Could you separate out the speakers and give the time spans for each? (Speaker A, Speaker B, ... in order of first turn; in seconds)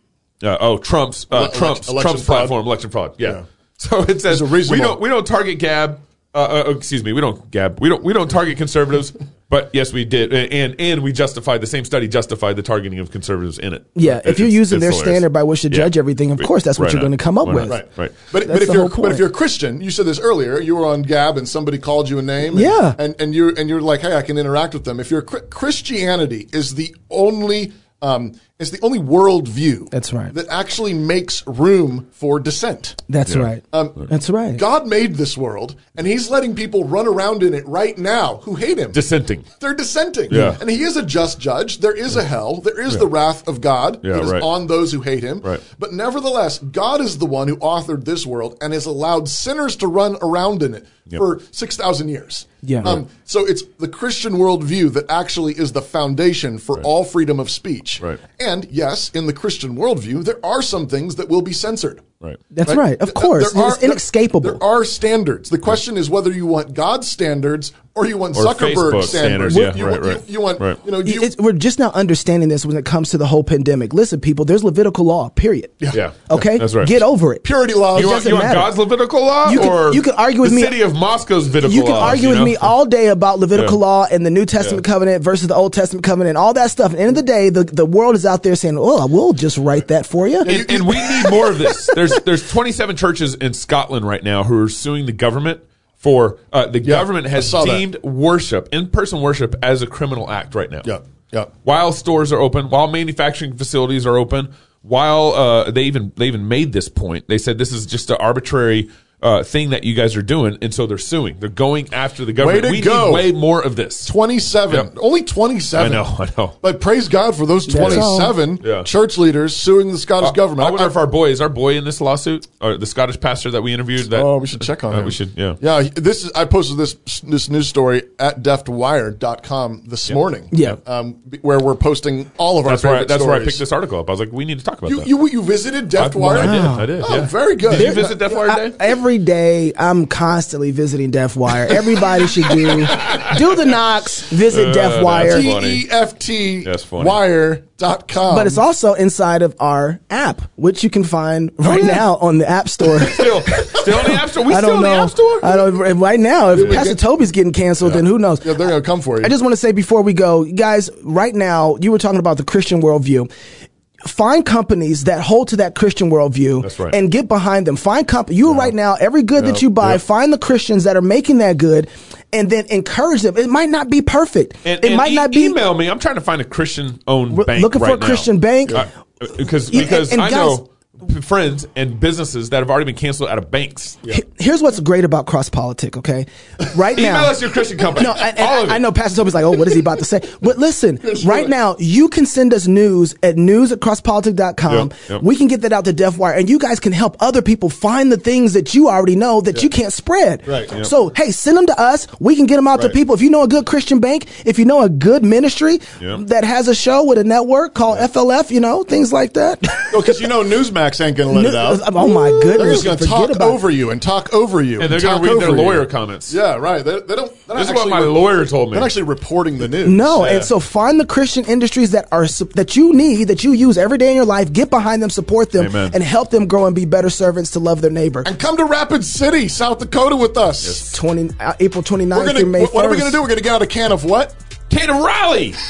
Speaker A: 0.4-18.1, 38.9-39.5, 40.3-40.6, 44.0-44.5, 68.3-70.8, 75.9-77.0, 77.9-82.7, 90.4-100.9, 101.6-114.1, 115.7-116.5, 117.8-118.9, 120.2-125.6, 132.6-135.1, 135.9-138.8, 142.9-143.3, 144.5-145.8, 146.6-147.2, 151.6-152.1, 152.9-155.8, 156.5-156.8, 166.6-167.0, 169.4-170.0, 174.6-184.0, 186.9-188.9, 194.7-195.2, 212.6-212.9, 214.8-216.4, 217.5-218.9, 220.2-220.5, 225.6-225.9, 230.6-230.9, 234.7-235.6
Speaker B: 1.3-2.5, 4.3-5.0, 17.7-33.0, 33.7-39.0, 39.6-62.1, 62.6-71.3, 77.4-78.4, 90.4-92.1, 96.8-97.9, 100.8-101.5, 112.4-113.3, 114.0-116.0, 116.6-121.0, 124.1-133.6, 134.8-138.1, 145.1-148.6, 156.5-157.0, 157.8-159.3, 191.0-191.5, 200.4-200.7, 209.9-220.2, 228.2-230.9, 232.1-234.3
Speaker C: 13.9-17.8, 18.4-19.2, 22.5-23.0, 29.9-30.3, 33.1-34.6, 52.6-53.0, 62.5-64.6, 71.0-75.8, 76.3-78.8, 79.4-80.8, 81.6-90.5, 117.7-118.3, 130.5-130.8, 136.3-136.9, 137.7-145.5, 148.3-158.7, 159.2-163.3, 164.0-175.6, 177.3-178.8, 179.7-180.6, 184.1-187.3, 187.9-210.2, 211.3-213.6, 219.8-228.3, 230.9-233.2